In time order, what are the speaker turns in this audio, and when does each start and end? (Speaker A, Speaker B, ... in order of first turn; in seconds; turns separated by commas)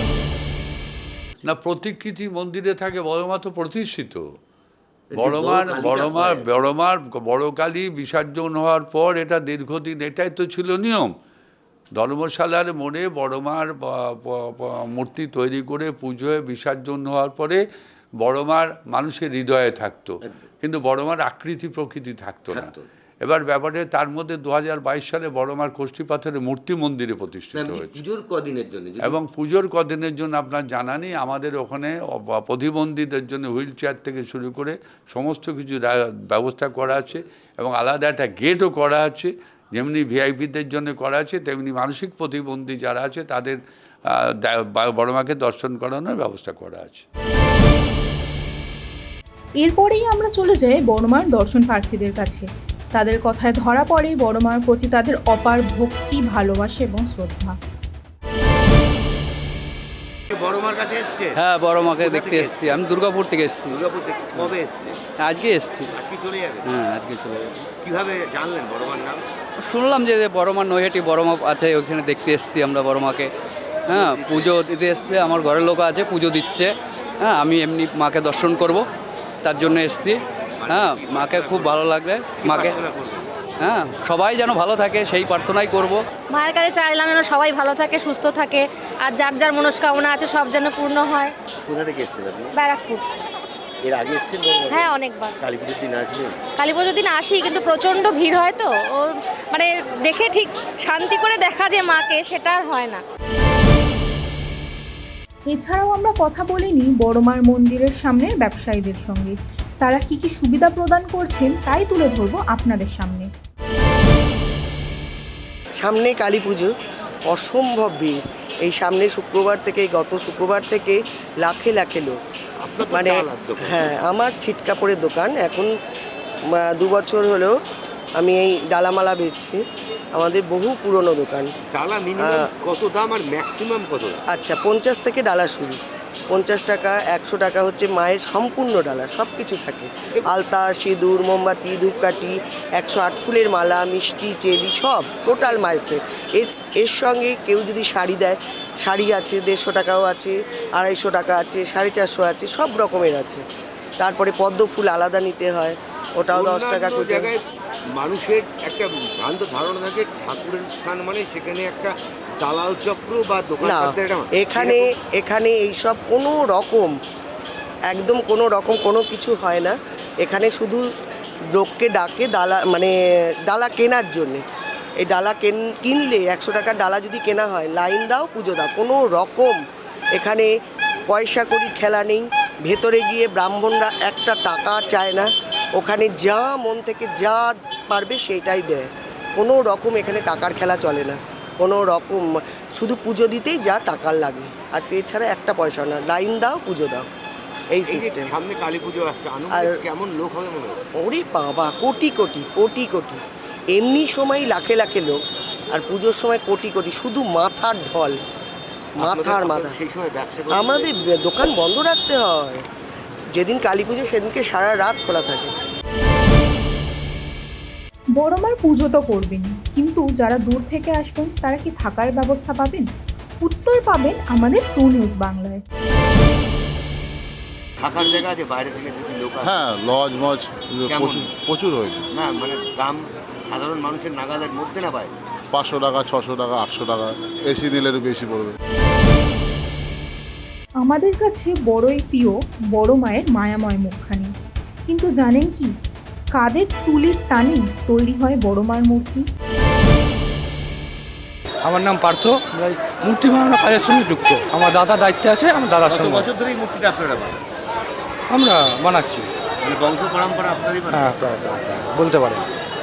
Speaker A: 1.5-4.2, Speaker B: 5.1-6.6, Speaker A: 5.1-11.1, Speaker A: 11.9-17.6, Speaker A: 18.2-28.0, Speaker B: 22.5-22.8, Speaker B: 27.6-29.2, Speaker A: 29.0-43.6, Speaker A: 44.1-47.0, Speaker C: 49.6-57.6, Speaker B: 60.3-61.4, Speaker D: 61.4-63.8, Speaker B: 62.0-62.8, Speaker B: 63.7-65.0, Speaker D: 65.2-65.9, Speaker B: 65.9-66.6, Speaker D: 66.7-67.5, Speaker B: 67.8-69.2, Speaker D: 69.7-73.3, Speaker D: 73.9-76.7, Speaker B: 74.0-74.5, Speaker D: 77.2-78.8, Speaker D: 79.4-82.8, Speaker B: 80.6-81.8, Speaker B: 82.4-83.3, Speaker D: 83.6-86.0, Speaker E: 86.3-91.3, Speaker B: 91.7-92.5, Speaker E: 92.5-93.0, Speaker B: 93.8-96.4, Speaker E: 94.7-95.4, Speaker E: 96.6-103.0, Speaker C: 105.5-113.3, Speaker F: 115.8-116.7, Speaker F: 117.3-122.2, Speaker B: 122.6-124.0, Speaker F: 122.9-125.7, Speaker F: 126.5-127.5, Speaker F: 128.2-129.6, Speaker F: 130.1-131.5, Speaker B: 131.7-134.2, Speaker F: 132.2-132.5, Speaker F: 134.3-135.8, Speaker F: 136.3-153.4, Speaker F: 154.0-157.3, Speaker B: 156.3-157.4, Speaker B: 158.0-164.8, Speaker F: 163.6-166.9, Speaker F: 167.9-170.8, Speaker F: 171.5-172.9, Speaker F: 173.4-174.4, Speaker F: 175.0-179.6, Speaker F: 180.2-180.5, Speaker F: 181.1-197.1, Speaker F: 197.7-198.3, Speaker B: 197.9-200.8, Speaker F: 199.5-199.8, Speaker F: 201.0-203.2, Speaker F: 203.7-205.2, Speaker F: 205.7-208.2, Speaker B: 209.0-211.1, Speaker F: 209.0-209.8, Speaker F: 210.5-212.6, Speaker F: 213.3-215.5, Speaker C: 218.2-222.9, Speaker C: 223.4-225.6, Speaker B: 227.8-229.6, Speaker G: 229.4-232.0, Speaker B: 230.9-231.3, Speaker B: 232.1-235.1, Speaker G: 235.5-238.6, Speaker C: 240.8-244.3, Speaker C: 244.9-245.7, Speaker C: 246.3-249.3, Speaker H: 251.6-256.3, Speaker B: 255.9-257.4, Speaker H: 258.3-259.3, Speaker B: 259.6-261.1, Speaker H: 260.9-262.5